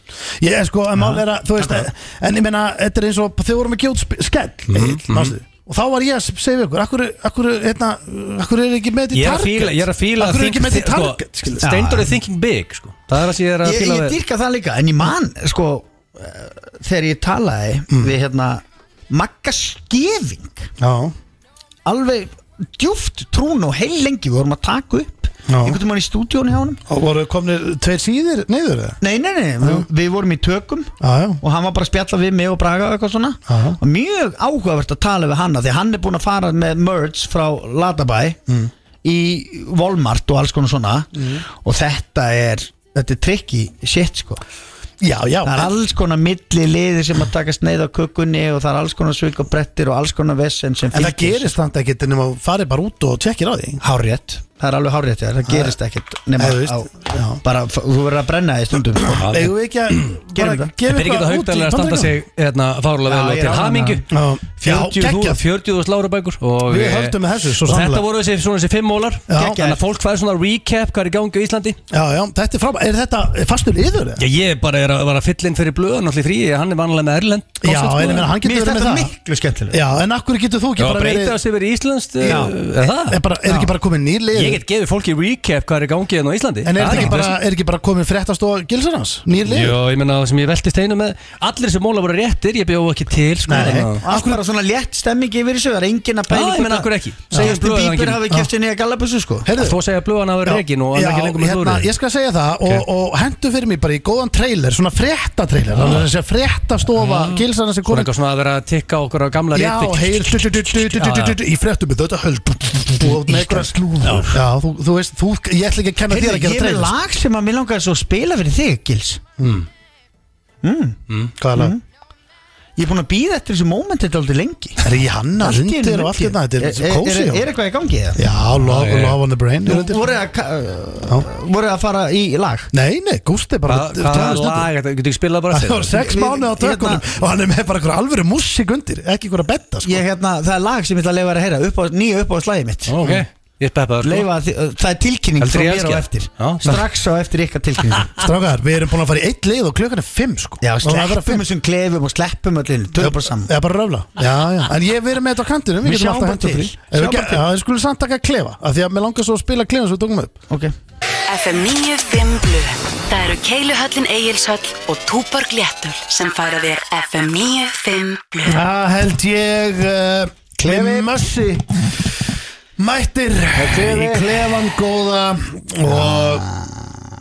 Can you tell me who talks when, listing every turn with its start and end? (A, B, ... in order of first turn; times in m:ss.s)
0:00.3-0:12.1 A
0:01.0-0:01.8 B
0:04.7-0:05.4 C
0:09.1-0:14.2 C
0:11.6-0:12.0 B
0:13.6-0:20.7 B
0:20.8-0:21.2 A
0:21.9-0:26.8 B
0:25.5-0:25.8 A
0:26.9-0:29.0 A
0:29.0-0:38.4 B
0:31.0-0:31.4 A
0:33.5-0:33.8 A
0:39.0-0:44.4 B
0:41.1-0:41.4 A
0:45.0-0:45.7 A
0:45.4-0:51.6 B
0:50.9-0:53.8 A
0:53.8-0:59.3 B
0:55.5-0:55.8 A
0:56.4-0:57.4 A
0:59.0-1:02.1 A
0:59.2-1:00.1 C
1:00.3-1:00.7 B
1:00.9-1:04.0 C
1:03.1-1:04.0 B
1:04.1-1:05.4 A
1:04.6-1:11.8 C
1:06.7-1:08.0 A
1:09.3-1:09.6 A
1:09.3-1:09.8 B
1:11.9-1:14.3 A
1:14.2-1:18.3 C
1:17.6-1:19.1 A
1:18.4-1:19.8 B
1:19.7-1:21.4 A
1:20.8-1:23.2 C
1:22.2-1:24.6 A
1:22.2-1:22.5 B
1:24.3-1:27.3 C
1:26.6-1:29.8 A
1:29.4-1:34.0 C
1:33.5-1:34.4 A
1:33.5-1:39.5 B
1:36.3-1:38.2 C
1:39.5-1:39.8 A
1:39.6-1:41.9 C
1:40.4-1:48.1 A
1:45.8-1:46.1 C
1:47.0-1:51.4 C
1:49.5-1:57.0 A
1:53.3-1:54.3 B
1:54.0-1:54.4 C
1:56.1-1:59.2 B
1:59.4-1:59.7 A
2:00.6-2:01.0 B
2:01.4-2:01.8 A
2:01.6-2:01.8 B
2:02.8-2:04.9 B
2:04.8-2:07.5 A
2:05.4-2:08.2 B
2:08.2-2:10.0 A
2:08.6-2:09.2 C
2:09.7-2:12.7 B
2:12.7-2:14.7 A
2:13.7-2:16.0 C
2:15.5-2:20.0 A
2:15.9-2:17.1 B
2:19.8-2:22.9 B
2:22.9-2:24.3 C
2:24.0-2:28.2 B
2:25.4-2:26.9 C
2:28.2-2:31.4 A
2:30.6-2:33.5 B
2:33.0-2:40.3 A
2:35.8-2:37.4 B
2:41.3-2:48.6 D
2:48.4-2:51.9 A
2:50.6-2:51.1 B
2:52.8-2:56.4 A
2:53.6-2:54.4 B
2:55.9-2:56.9 B